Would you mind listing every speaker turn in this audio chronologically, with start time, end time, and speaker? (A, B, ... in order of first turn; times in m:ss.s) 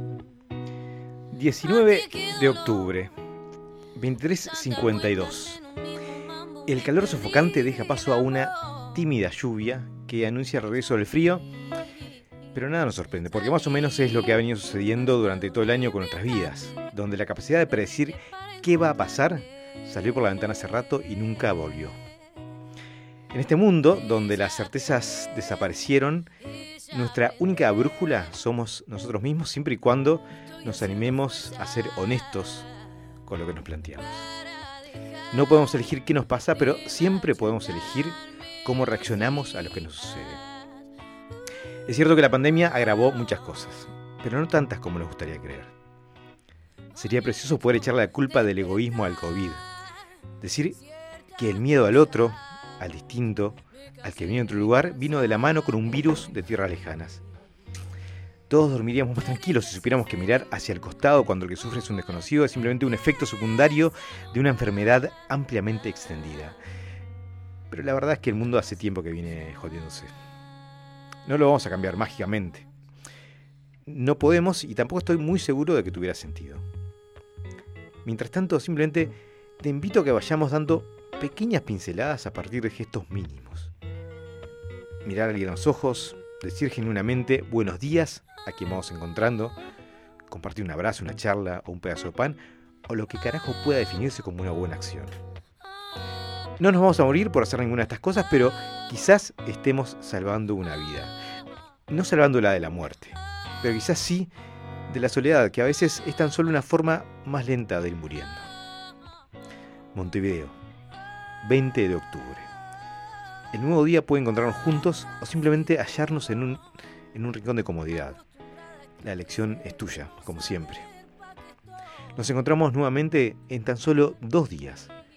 0:01.3-0:03.1 A
0:03.9-0:05.6 A
0:06.6-0:11.4 A
0:12.5-0:21.9 A
0:23.3-0:26.3 A
0:26.9-0:32.7 A
0:33.2-0:34.2 A
0:35.3-0:40.4 A
0:41.9-0:45.7 A
0:46.9-0:49.6 A
0:50.4-0:50.8 A
0:51.4-0:57.2 A
0:58.5-1:06.6 A
1:07.7-1:10.1 A
1:11.2-1:12.6 A
1:13.9-1:16.6 A
1:18.0-1:23.7 A
1:25.0-1:29.6 A
1:30.3-1:35.1 A
1:36.6-1:41.1 A
1:41.9-1:44.3 A
1:44.9-1:48.4 A
1:49.9-1:50.5 A
1:51.4-1:52.5 A
1:53.5-1:58.2 A
1:59.0-2:00.8 A
2:02.2-2:04.9 A